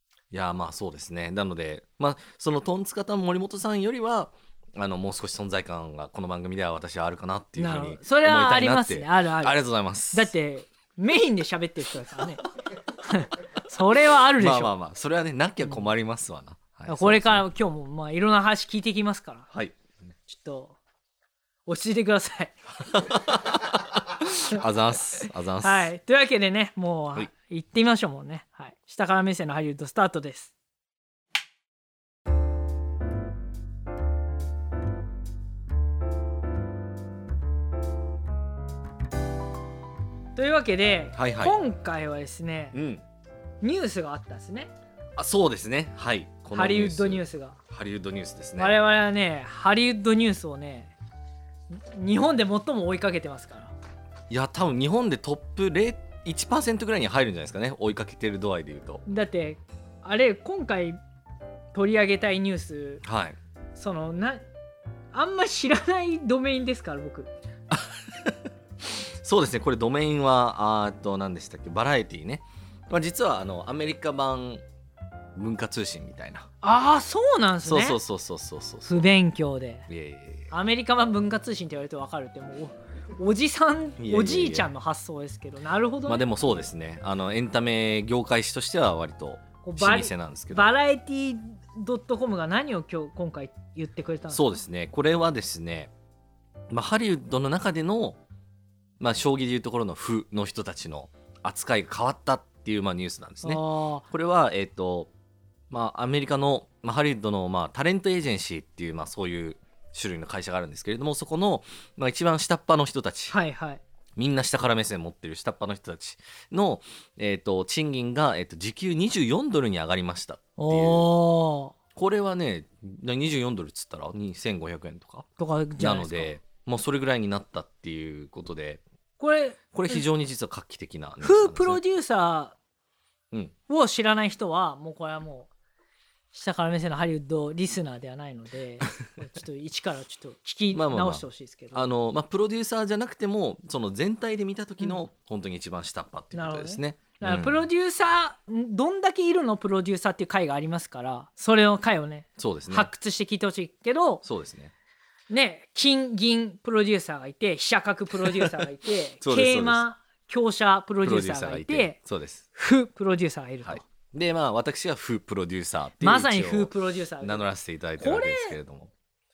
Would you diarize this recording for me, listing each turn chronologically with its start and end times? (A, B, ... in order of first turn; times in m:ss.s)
0:00.3-0:10.3 A
0:07.6-0:09.6 B
0:10.1-0:12.4 B
0:13.0-0:14.7 B
0:14.4-0:17.4 A
0:16.9-0:19.5 B
0:19.5-0:19.8 A
0:20.3-0:20.8 B
0:21.6-0:22.5 B
0:22.9-0:25.9 A
0:24.5-0:30.5 B
0:40.3-0:42.8 B
0:41.1-0:41.6 A
0:42.7-0:43.0 A
0:43.6-0:44.7 B
0:45.2-0:48.8 A
0:46.5-0:47.6 B
0:48.6-0:50.9 B
0:51.7-0:53.7 B
0:54.3-0:59.0 A
0:59.0-1:01.0 B
1:01.7-1:03.0 B
1:03.0-1:03.4 A
1:03.7-1:04.4 B
1:05.1-1:07.3 B
1:07.7-1:08.4 A
1:09.0-1:14.6 A
1:15.4-1:16.5 A
1:16.6-1:18.0 B
1:17.6-1:18.9 A
1:18.8-1:19.9 B
1:19.9-1:20.5 A
1:20.5-1:26.2 B
1:24.0-1:24.7 A
1:26.0-1:30.7 A
1:29.6-1:34.6 B
1:34.3-1:35.9 A
1:36.7-1:38.2 A
1:39.0-1:45.1 A
1:43.4-1:44.0 B
1:45.7-1:53.4 A
1:53.3-1:53.8 B
1:54.2-2:01.1 A
2:00.6-2:01.7 B
2:02.0-2:05.3 A
2:05.4-2:06.3 B
2:05.8-2:08.8 A
2:09.2-2:10.0 B
2:09.7-2:11.8 A
2:11.2-2:12.6 B
2:13.7-2:15.5 B
2:16.3-2:21.9 B
2:20.7-2:27.7 A
2:26.3-2:34.2 B
2:32.4-2:32.9 A
2:34.2-2:34.7 A
2:35.3-2:42.0 B
2:38.2-2:38.6 A
2:39.2-2:39.8 A
2:41.0-2:42.4 A
2:42.5-2:43.8 B
2:43.6-2:48.9 A
2:46.0-2:47.5 B
2:48.0-2:48.6 B